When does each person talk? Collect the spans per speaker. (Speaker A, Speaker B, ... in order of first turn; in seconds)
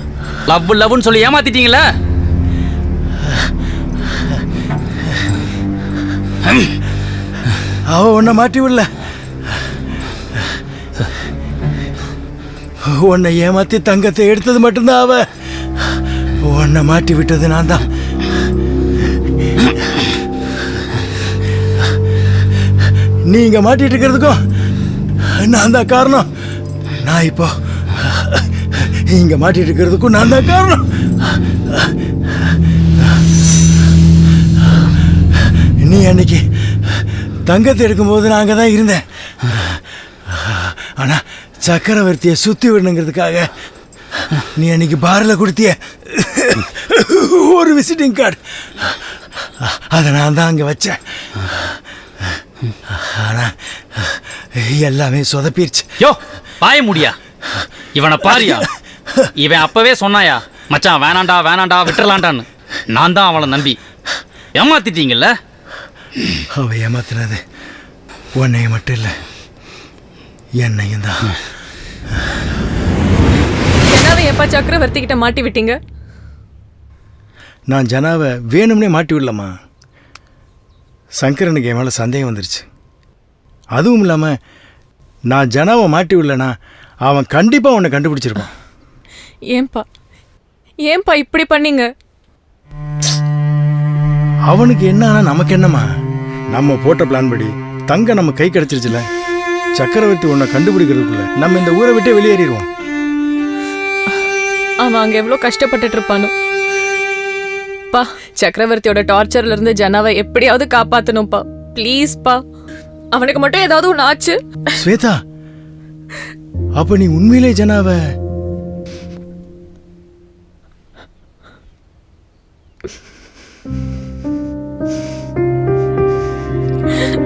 Speaker A: 0.5-1.9, 56.0-57.2, 57.9-58.7, 59.4-63.8, 64.5-65.4
Speaker B: 7.9-8.9, 12.9-15.3, 16.4-17.9, 23.3-24.4, 25.3-26.3, 27.0-31.1, 35.8-36.4, 37.5-39.8, 40.3-43.5, 44.3-49.0, 49.6-51.7, 52.9-55.9, 66.5-67.4, 68.3-69.1, 70.6-71.4, 77.7-79.5, 81.2-82.7, 83.7-84.3, 85.3-86.5, 87.0-88.5, 94.5-95.8, 96.5-99.1, 99.8-102.7, 114.8-115.2, 116.8-118.0
Speaker C: 73.9-75.8, 89.5-89.8, 90.9-91.8, 104.8-106.3, 107.9-112.4, 113.2-114.3